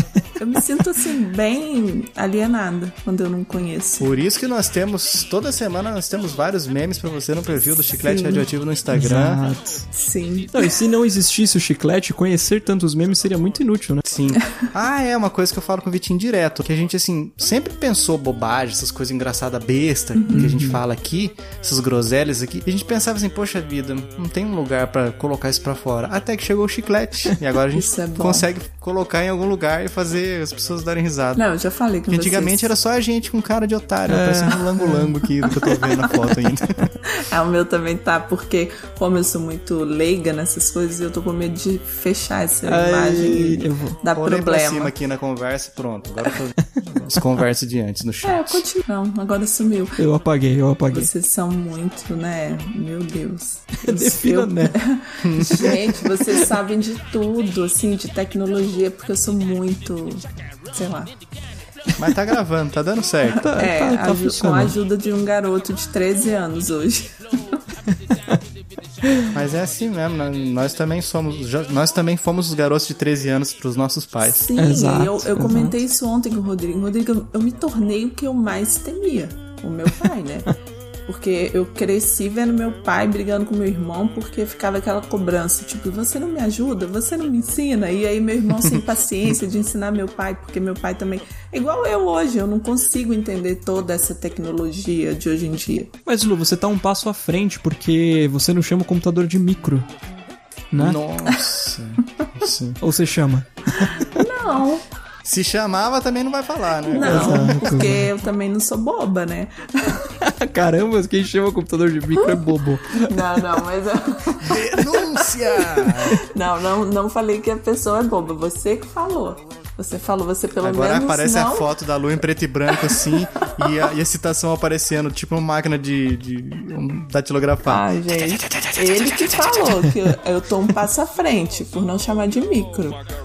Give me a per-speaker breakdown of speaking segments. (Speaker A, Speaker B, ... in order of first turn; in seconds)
Speaker A: 0.4-4.1, 8.0-8.5, 9.9-10.7, 20.1-20.5, 27.7-28.5, 31.4-32.7, 35.5-36.1, 37.1-44.9, 48.2-50.0, 50.9-61.1, 63.2-67.2, 74.2-80.5, 81.1-95.9, 101.3-101.5, 104.2-104.9, 106.9-110.1, 112.2-115.0, 116.1-121.8, 122.9-123.5, 127.6-133.0
Speaker B: 4.0-9.4, 14.1-31.4, 32.1-36.9, 44.0-48.6, 55.2-55.7, 62.0-63.5, 69.3-74.5, 100.8-102.8, 105.2-107.8, 114.4-116.2, 120.6-127.8
Speaker C: 8.9-9.9, 10.5-14.1, 20.3-20.8, 34.1-35.1, 42.6-44.0, 50.0-51.1, 53.8-54.8, 55.5-56.1, 63.4-64.8, 74.6-75.7, 96.1-99.9, 100.7-101.0, 102.8-104.2, 107.0-108.1, 110.2-113.4, 115.5-116.0, 128.3-129.9